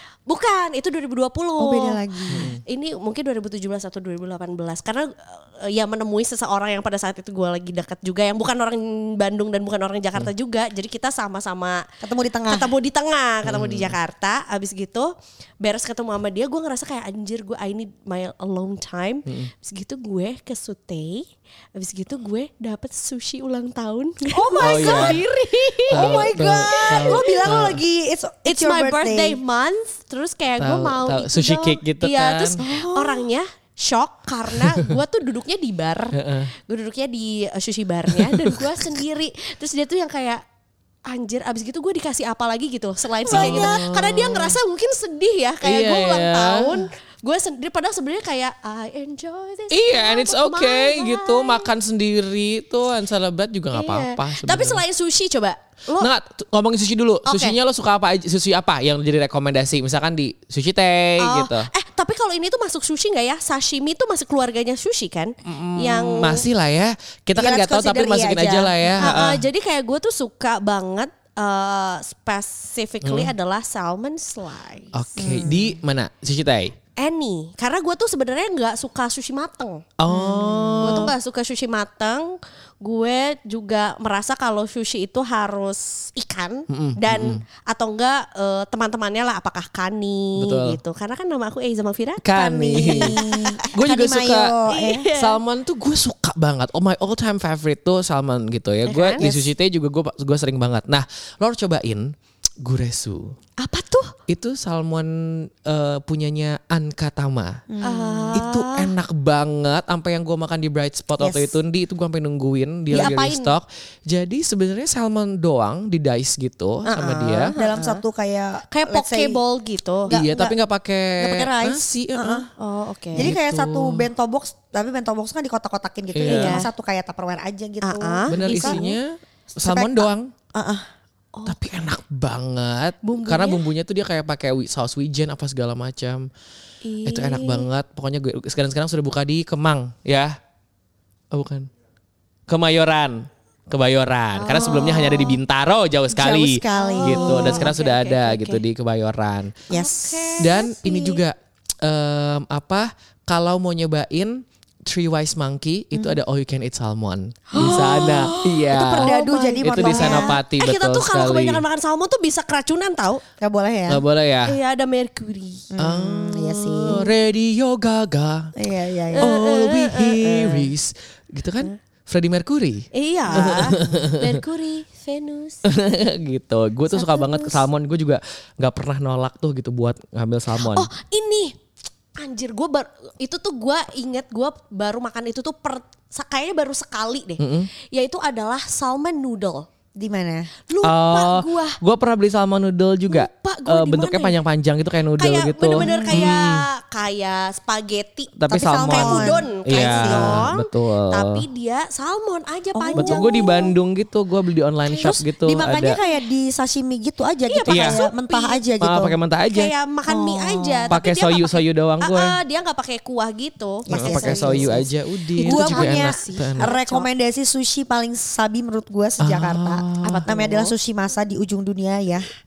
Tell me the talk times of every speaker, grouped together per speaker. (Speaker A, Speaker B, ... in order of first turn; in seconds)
Speaker A: 0.3-11.9, 12.5-27.7, 28.4-40.4, 41.1-51.7, 53.7-56.1, 57.2-57.6, 61.2-66.5, 69.0-75.5, 77.0-79.8, 80.8-93.7, 94.7-95.4, 98.9-99.3, 103.6-104.1, 107.8-108.9, 112.9-113.5, 116.9-118.0, 118.7-120.1, 122.2-123.3, 126.2-126.7, 127.8-129.0, 131.3-131.8, 133.0-133.6, 136.8-137.7, 144.4-145.4, 146.7-148.6, 149.7-151.2, 157.5-163.2, 164.5-165.7, 166.8-167.1, 169.1-170.7, 172.9-175.6, 176.9-177.6, 180.6-181.6, 182.2-189.7, 190.7-191.8, 193.1-194.4, 195.2-203.6, 204.9-205.2, 207.5-208.6, 209.5-214.8, 215.4-217.1, 220.0-220.7
Speaker B: 1.6-2.6, 12.0-12.7, 24.3-25.2, 25.9-29.4, 32.6-33.3, 43.2-43.9, 67.4-69.2, 75.2-75.8, 80.1-81.1, 92.7-95.1, 99.2-99.5, 107.7-108.5, 111.2-111.5, 117.6-119.4, 120.1-120.6, 121.2-122.5, 123.1-128.8, 129.6-130.9, 146.1-147.8, 149.7-150.5, 155.9-156.2, 157.6-157.9, 158.7-160.4, 163.4-164.0, 165.7-167.1, 168.6-169.3, 173.3-174.1, 190.0-190.5, 195.8-196.2, 198.5-200.5, 202.8-203.7, 205.0-209.2, 210.1-210.9, 213.9-222.3
Speaker C: 2.3-2.6, 13.4-13.9, 24.6-25.2, 25.9-27.8, 30.6-32.6, 36.1-36.5, 38.2-38.6, 43.3-44.6, 45.6-46.8, 49.7-54.8, 56.0-61.7, 65.5-69.4, 73.0-73.3, 74.9-76.7, 80.0-81.1, 86.7-87.4, 90.4-90.8, 92.2-93.2, 93.7-94.5, 95.1-103.3, 104.3-107.6, 108.3-117.5, 120.1-122.4, 123.2-124.1, 126.1-126.6, 128.3-130.3, 131.5-136.3, 137.1-140.4, 141.3-141.7, 142.5-149.6, 150.4-161.6, 163.9-164.6, 165.8-168.5, 169.2-174.3, 175.7-180.9, 187.4-187.7, 190.8-196.7, 198.4-201.4, 203.0-206.0, 207.7-208.0, 208.8-209.7, 210.9-212.4, 213.9-216.7, 219.2-220.3